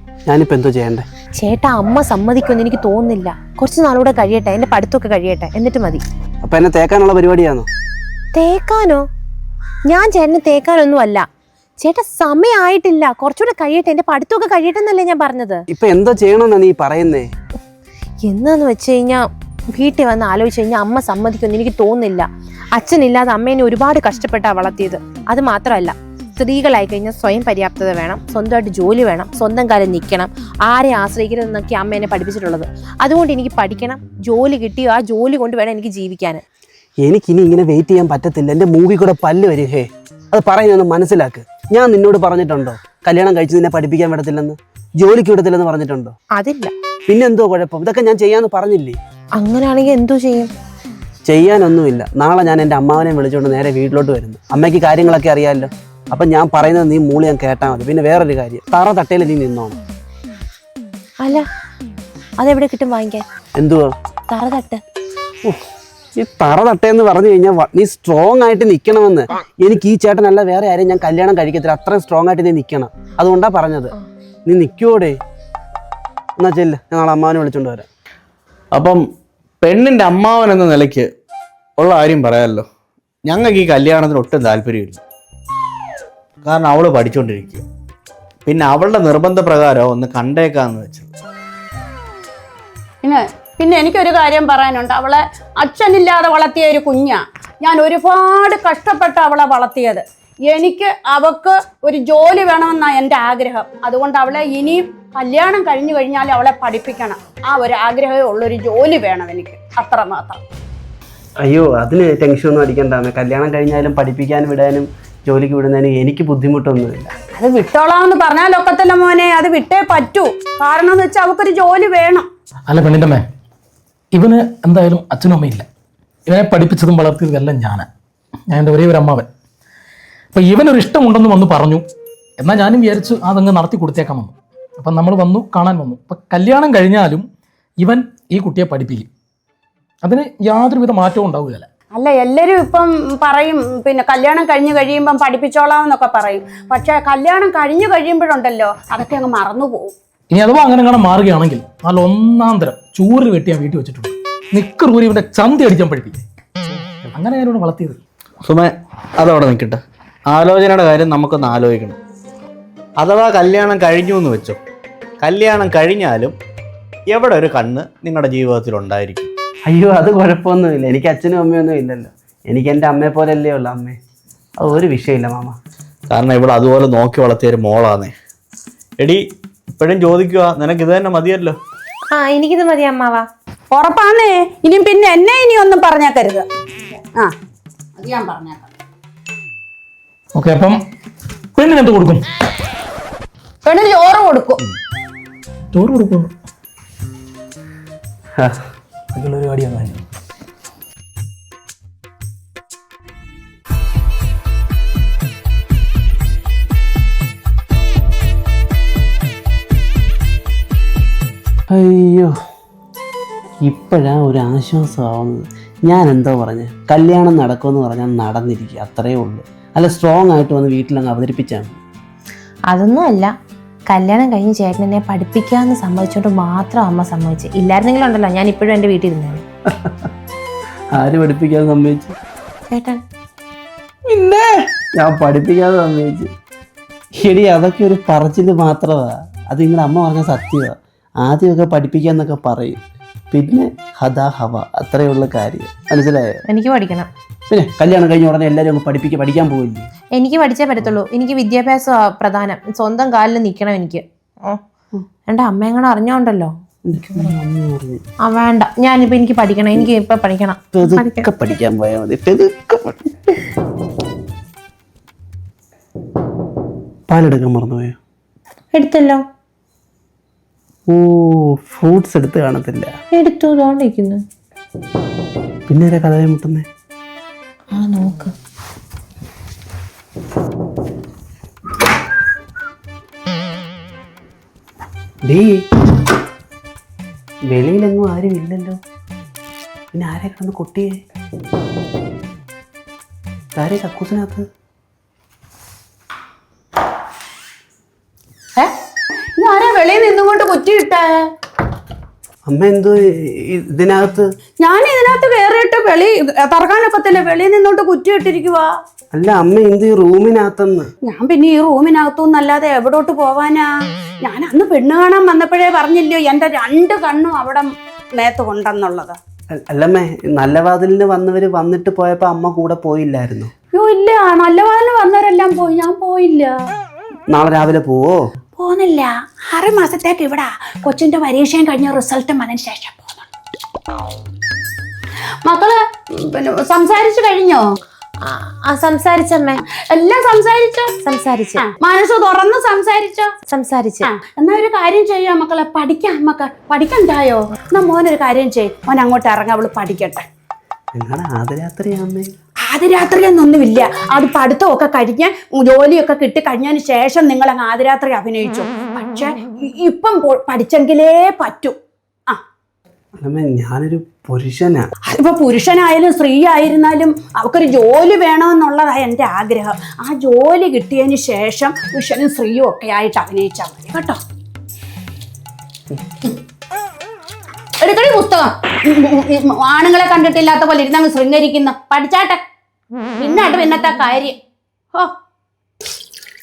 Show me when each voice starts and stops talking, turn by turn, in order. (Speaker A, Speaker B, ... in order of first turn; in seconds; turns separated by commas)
Speaker A: 0.3-1.0, Speaker B: 1.4-6.0, Speaker A: 6.4-7.7, Speaker B: 8.3-9.1, Speaker B: 9.9-11.2, Speaker B: 11.8-15.6, Speaker A: 15.7-17.3, Speaker B: 18.3-19.2, Speaker B: 19.7-36.4, Speaker A: 37.0-46.1, Speaker B: 46.4-46.7, Speaker A: 47.1-49.0, Speaker B: 49.4-50.5, Speaker A: 51.2-59.8, Speaker B: 62.4-63.2, Speaker A: 63.5-63.9, Speaker B: 64.3-64.8, Speaker A: 66.2-73.9, Speaker A: 74.5-75.2, Speaker A: 76.4-77.9, Speaker C: 78.7-79.0, Speaker C: 79.6-81.1, Speaker C: 81.8-82.7, Speaker C: 83.2-85.0, Speaker C: 86.4-87.6, Speaker C: 88.5-91.1, Speaker D: 93.0-110.4, Speaker A: 111.4-117.1, Speaker D: 117.3-122.3, Speaker E: 122.7-123.2, Speaker E: 124.1-125.6, Speaker E: 126.3-127.8, Speaker E: 128.5-129.3, Speaker E: 130.3-131.8, Speaker E: 132.4-137.2, Speaker E: 137.8-139.1, Speaker E: 140.0-141.7, Speaker D: 141.9-149.9, Speaker E: 150.3-156.2, Speaker E: 157.1-158.0, Speaker C: 158.4-162.0, Speaker C: 163.0-164.6, Speaker C: 165.2-166.3, Speaker C: 167.1-169.3, Speaker A: 169.7-174.0, Speaker A: 174.6-175.6, Speaker C: 176.1-178.1, Speaker C: 179.8-181.6, Speaker B: 182.1-183.2, Speaker D: 183.7-187.3, Speaker D: 187.9-188.7, Speaker E: 190.3-190.8, Speaker E: 191.5-192.2, Speaker D: 193.6-194.6, Speaker E: 195.7-196.3, Speaker E: 199.1-200.0, Speaker A: 211.7-212.3, Speaker A: 213.6-221.8, Speaker B: 222.7-223.3, Speaker B: 223.9-229.4, Speaker A: 229.7-230.1, Speaker A: 230.9-232.1, Speaker B: 232.7-233.0, Speaker A: 234.1-236.3, Speaker A: 237.2-242.8, Speaker A: 243.3-246.3, Speaker B: 246.5-247.1, Speaker A: 247.5-249.8, Speaker B: 250.2-254.6, Speaker B: 255.3-257.3, Speaker A: 256.9-258.0, Speaker B: 258.2-261.3, Speaker A: 260.7-263.0, Speaker A: 267.1-268.0, Speaker B: 268.7-269.2, Speaker A: 270.9-272.9, Speaker B: 273.1-274.2, Speaker A: 275.7-276.6, Speaker B: 277.7-278.3, Speaker A: 285.3-285.6, Speaker A: 287.5-288.8, Speaker A: 289.9-290.9, Speaker A: 293.5-294.4, Speaker D: 299.4-301.3, Speaker A: 302.5-304.2, Speaker D: 304.6-308.8, Speaker A: 309.1-310.9, Speaker D: 311.0-319.2, Speaker A: 319.5-323.5, Speaker D: 323.7-326.5, Speaker A: 327.3-328.2, Speaker D: 328.6-333.3, Speaker D: 335.2-337.7, Speaker B: 338.2-339.6, Speaker D: 339.7-340.9, Speaker B: 341.0-341.6, Speaker D: 341.6-343.3, Speaker B: 343.5-344.1, Speaker D: 344.0-350.2, Speaker A: 350.9-352.3, Speaker D: 352.6-362.4, Speaker A: 363.2-364.9, Speaker D: 365.0-374.2, Speaker D: 377.8-382.4, Speaker D: 383.2-384.4